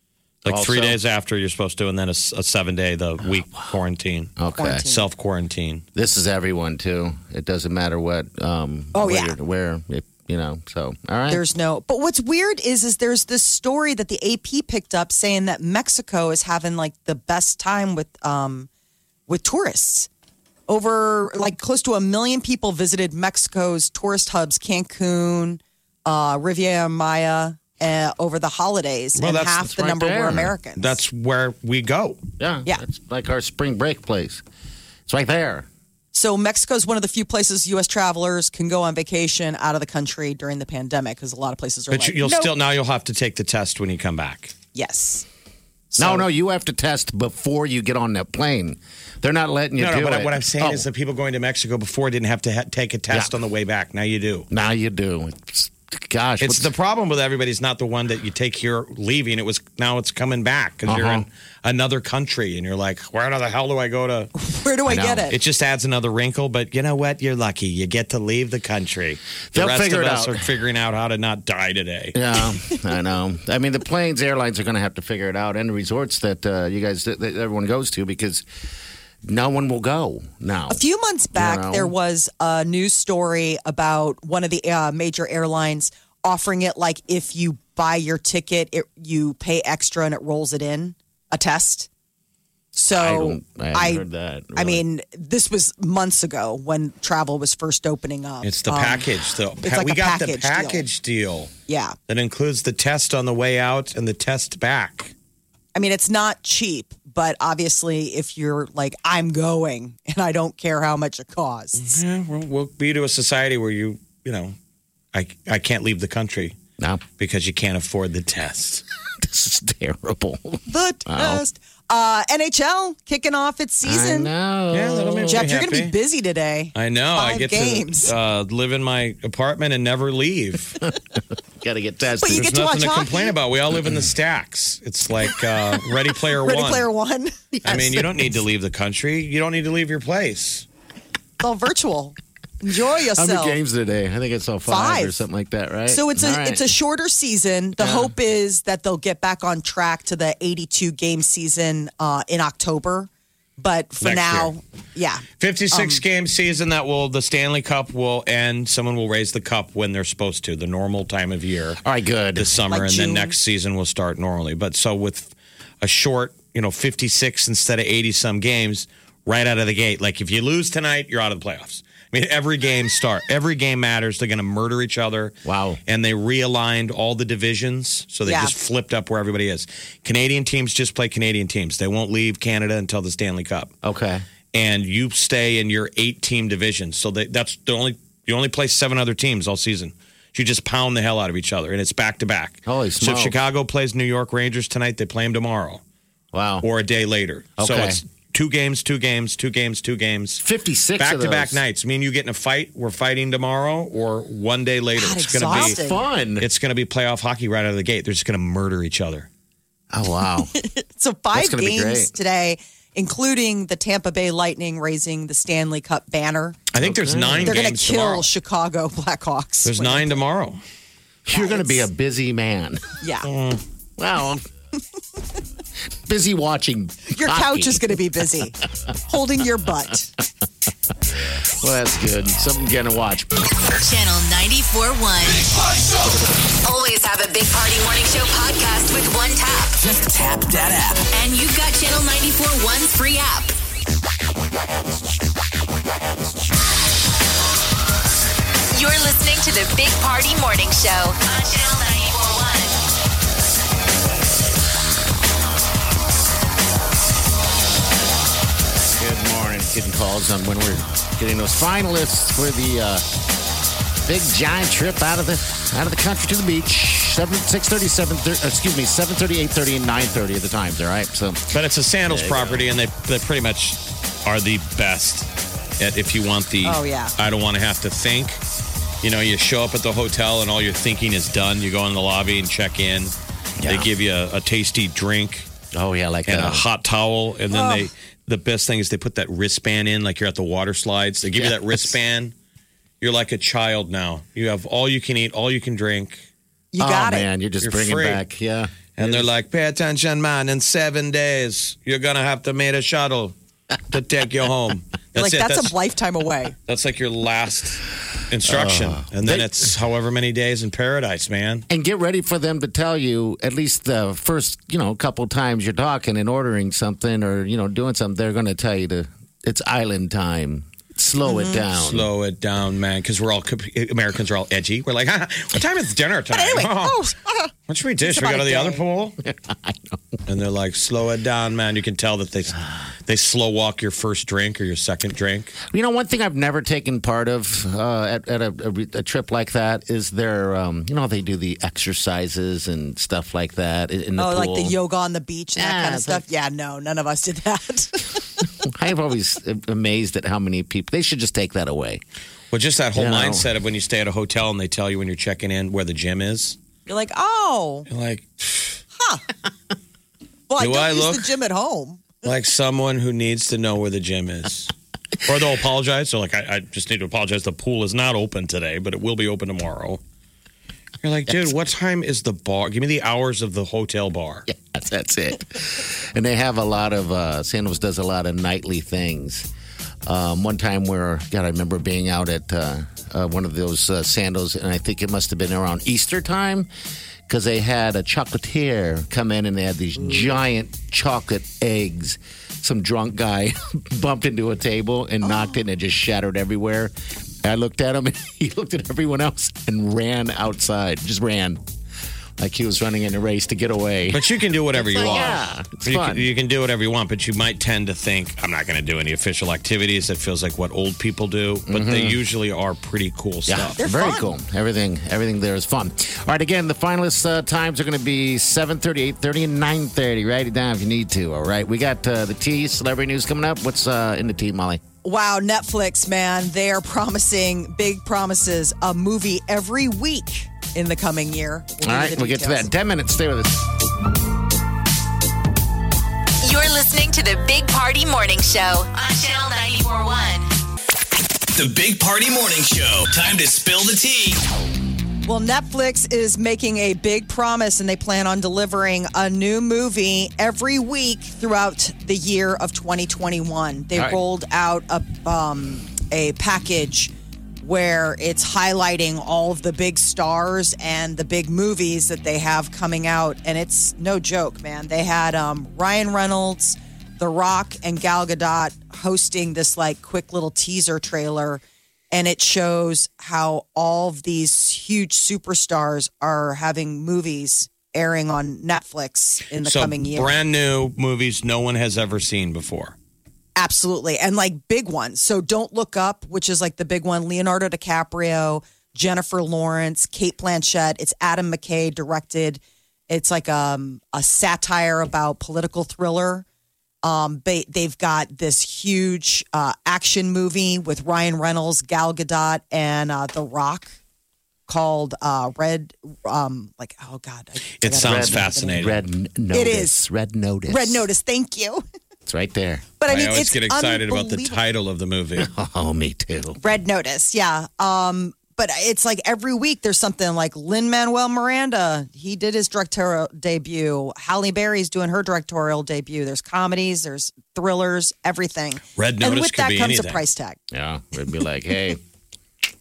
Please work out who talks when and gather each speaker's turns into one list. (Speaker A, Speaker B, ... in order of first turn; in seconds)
Speaker A: 0.4-1.0, 3.3-3.6, 4.4-4.8, 5.9-11.4, 29.6-30.5, 32.4-34.4, 35.1-35.7, 46.0-50.9, 54.5-56.7, 60.9-61.2, 64.9-65.3, 69.5-70.4, 72.1-78.4, 79.2-80.8, 81.3-81.9, 92.9-94.8, 116.8-117.0, 119.2-121.4, 123.8-125.5, 130.8-132.6, 137.5-138.4, 143.1-146.7, 147.8-148.1, 161.8-162.5, 175.4-175.8, 183.8-184.2, 192.7-193.3, 196.3-196.6, 197.6-198.0, 200.4-201.6, 205.4-206.5, 209.9-210.5, 211.3-212.1, 216.8-217.6, 221.2-222.8, 224.0-224.4, 226.1-228.0, 231.6-233.3, 257.5-258.1, 259.0-263.1, 264.0-272.7, 283.6-283.9, 285.7-286.6, 291.3-292.0, 296.8-299.3, 308.4-309.5, 311.7-322.1, 329.2-330.2, 335.6-344.8, 345.6-346.2, 348.6-352.0, 352.9-353.4, 374.5-379.5, 380.1-386.7, 387.3-396.9, 397.4-401.6, 402.4-406.2, 411.7-412.2, 413.5-424.8, 431.8-433.6, 507.9-511.1, 512.2-512.9, 515.4-516.6, 530.7-532.0
Speaker B: 0.4-5.8, 29.1-29.7, 30.8-32.2, 41.9-44.5, 49.8-54.5, 56.4-64.3, 65.3-72.2, 98.4-101.5, 102.1-105.1, 111.8-114.5, 115.1-116.6, 117.2-118.8, 124.7-125.9, 126.7-130.8, 132.3-136.8, 137.6-140.7, 154.0-154.5, 155.4-161.8, 162.3-175.3, 175.8-183.7, 184.5-195.8, 196.6-200.4, 201.0-205.8, 206.4-209.3, 216.7-218.3, 219.6-220.6, 223.2-223.6, 271.5-275.3, 275.8-278.4, 279.0-285.5, 286.2-292.3, 293.0-296.2, 297.6-298.2, 299.0-303.3, 303.9-305.7, 306.7-311.7, 321.7-327.0, 327.7-329.2, 330.3-335.5, 352.5-356.6, 357.9-358.8, 360.6-361.3, 362.2-364.7, 365.2-370.0, 371.0-374.5, 404.1-413.8, 479.6-482.9, 507.8-509.0, 513.1-515.5, 529.0-530.2
Speaker C: 4.5-5.0, 8.9-9.3, 11.3-18.7, 19.3-20.1, 20.7-31.0, 36.1-42.5, 44.7-45.2, 45.9-46.3, 64.4-65.3, 80.7-91.9, 92.7-99.1, 99.6-100.8, 101.7-102.0, 105.7-112.0, 120.7-124.3, 125.3-128.1, 132.2-133.3, 136.4-137.3, 141.4-143.6, 144.7-145.2, 145.9-156.0, 162.7-163.3, 178.2-178.5, 204.9-206.0, 210.6-216.6, 217.4-220.2, 221.3-221.9, 223.0-223.3, 227.1-228.6, 229.1-230.1, 276.6-277.1, 287.5-287.9, 296.7-297.3, 305.2-306.5, 321.2-321.6, 326.3-327.5, 328.0-328.8, 344.2-348.2, 356.9-357.9, 358.9-359.2, 360.5-362.1, 395.2-395.5, 413.8-414.3, 425.0-432.7, 445.2-480.4, 483.6-496.4, 497.0-504.0, 504.7-508.8, 509.5-509.9, 510.7-511.8, 513.0-514.6, 516.6-530.6
Speaker D: 233.8-235.5, 236.6-239.8, 241.1-243.6, 248.7-252.8, 436.4-440.5
Speaker E: 239.8-241.0, 441.5-444.4